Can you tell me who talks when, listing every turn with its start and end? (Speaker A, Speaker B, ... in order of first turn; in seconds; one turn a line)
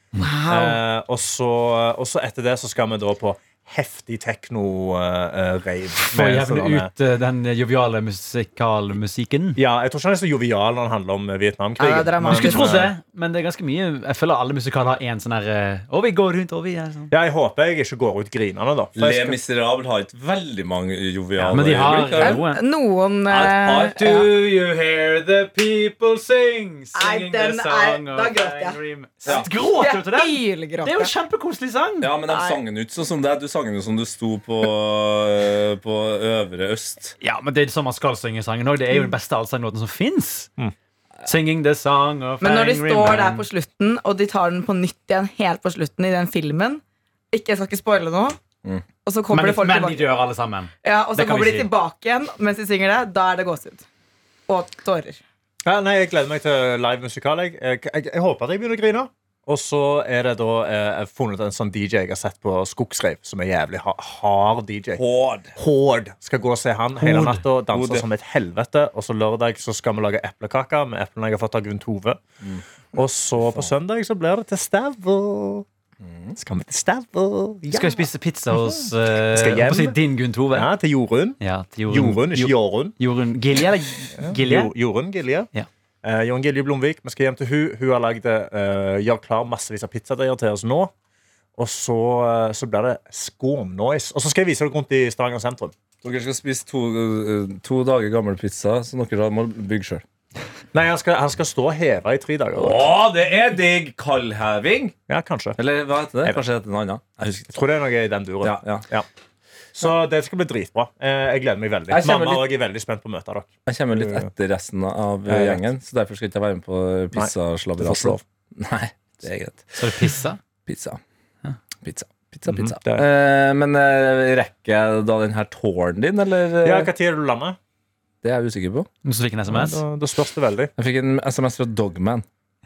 Speaker A: 0.2-0.8
Speaker B: 0.5-6.9
Speaker C: 6.1-9.6
Speaker B: 9.6-12.9
Speaker A: 11.8-12.7
Speaker C: 12.3-17.1
Speaker B: 17.1-19.4
Speaker D: 18.9-22.4
Speaker C: 21.4-22.6
Speaker A: 22.2-24.3
Speaker D: 23.3-24.3
Speaker C: 24.0-32.1
Speaker A: 26.9-31.1
Speaker D: 32.0-37.1
Speaker A: 32.3-32.6
Speaker C: 37.2-40.5
Speaker C: 41.2-43.5
Speaker A: 42.4-48.4
Speaker A: 49.0-50.1
Speaker C: 49.3-51.7
Speaker A: 50.8-53.8
Speaker A: 54.5-55.2
Speaker B: 55.6-65.0
Speaker D: 65.0-65.5
Speaker B: 65.5-72.2
Speaker C: 67.0-67.4
Speaker D: 67.7-68.0
Speaker B: 72.9-75.7
Speaker D: 76.0-76.3
Speaker B: 76.4-78.1
Speaker C: 77.7-80.7
Speaker B: 78.7-80.0
Speaker B: 80.5-82.9
Speaker C: 81.4-84.7
Speaker B: 84.2-85.5
Speaker B: 86.0-90.9
Speaker B: 91.5-95.7
Speaker D: 96.0-100.0
Speaker B: 100.7-102.9
Speaker D: 102.5-105.0
Speaker B: 105.1-105.6
Speaker D: 105.6-107.6
Speaker B: 107.5-109.1
Speaker D: 108.4-108.9
Speaker B: 109.8-114.3
Speaker D: 111.9-112.5
Speaker D: 113.7-120.1
Speaker B: 115.3-115.6
Speaker B: 117.1-118.2
Speaker C: 119.8-120.4
Speaker D: 120.7-121.0
Speaker D: 121.8-126.9
Speaker B: 122.5-123.0
Speaker B: 126.6-127.6
Speaker D: 128.2-128.9
Speaker C: 129.0-129.8
Speaker B: 129.5-130.7
Speaker D: 130.8-132.2